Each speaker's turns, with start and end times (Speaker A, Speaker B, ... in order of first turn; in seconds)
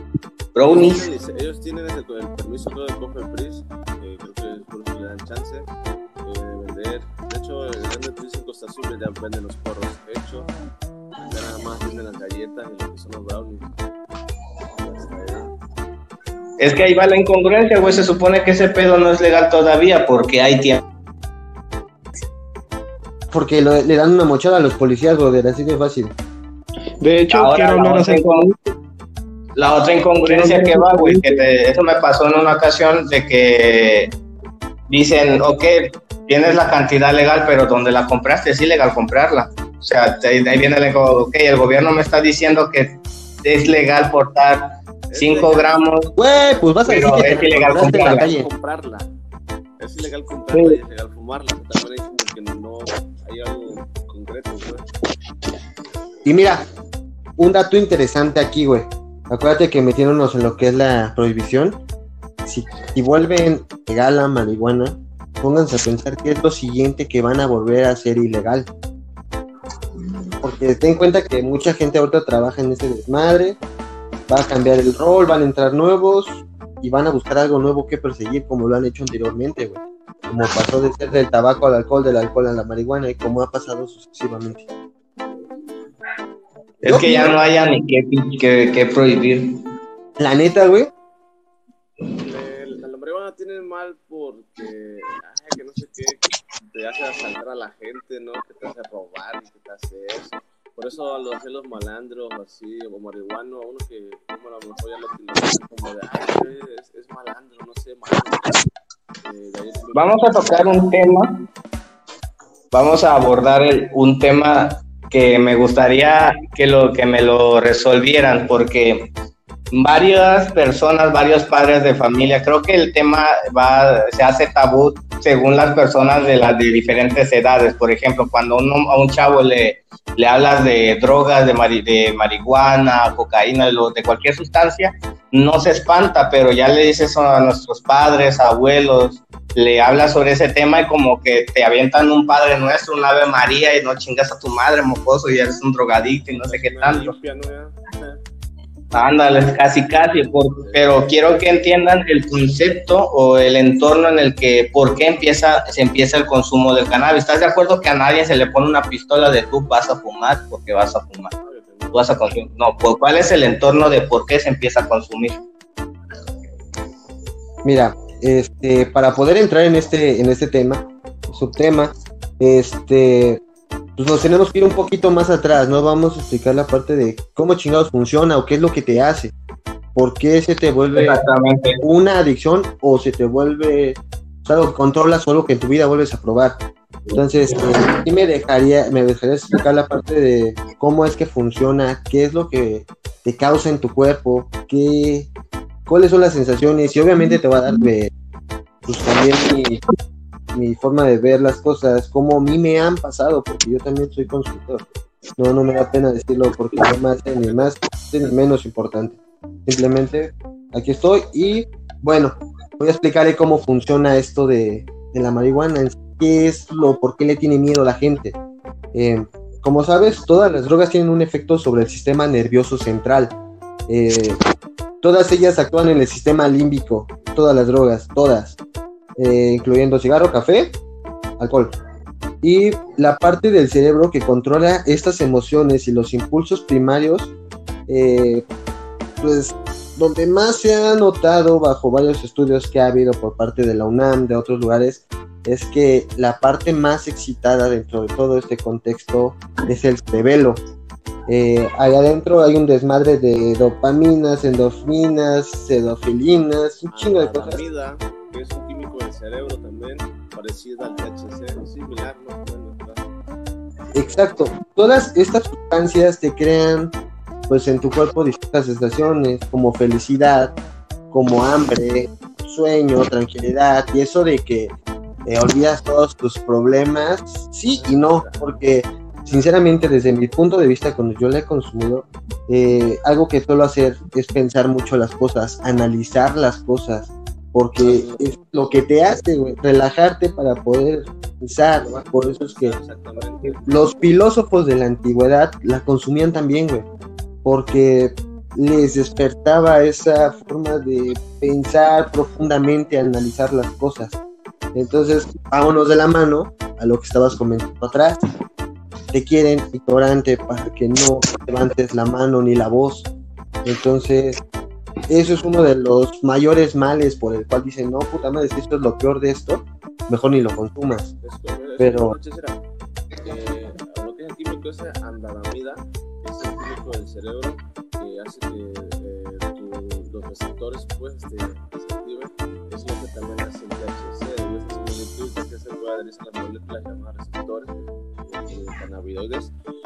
Speaker A: 0.5-1.1, 16.6-20.8, 27.3-28.4, 29.6-34.1, 34.9-46.1, 46.9-48.3, 50.5-50.8, 86.8-89.6, 109.9-111.5, 112.7-119.1, 119.7-147.1, 148.9-161.3, 161.9-165.4, 180.9-181.8
Speaker B: 0.7-5.7, 6.2-10.5, 11.3-13.7, 14.8-15.5, 45.1-49.1, 49.8-54.9, 92.2-108.6, 109.2-110.7, 146.4-148.2, 150.6-151.0, 161.4-162.1, 256.9-263.0, 264.0-264.4, 277.7-278.6, 287.8-288.2, 291.8-294.0, 321.2-322.6, 323.2-339.5
Speaker C: 23.3-26.1, 46.2-48.5, 56.2-56.6, 57.4-61.8, 62.5-68.7, 70.4-73.6, 74.3-84.7, 86.8-87.3, 90.2-90.9, 167.6-173.4, 174.0-179.3, 179.9-181.2, 181.8-186.6, 187.1-195.3, 195.8-198.1, 198.8-199.8, 200.5-204.8, 205.4-218.3, 218.9-223.3, 223.9-224.4, 225.0-228.6, 229.2-230.7, 231.4-231.7, 232.4-237.3, 237.9-238.4, 239.2-250.6, 251.3-257.6, 263.9-266.9, 267.5-270.5, 271.1-274.7, 275.2-292.8, 293.6-296.9, 297.4-304.2, 304.7-308.2, 309.1-313.1, 313.6-314.4, 315.1-321.1, 321.8-322.2
Speaker D: 27.0-28.6, 30.2-31.4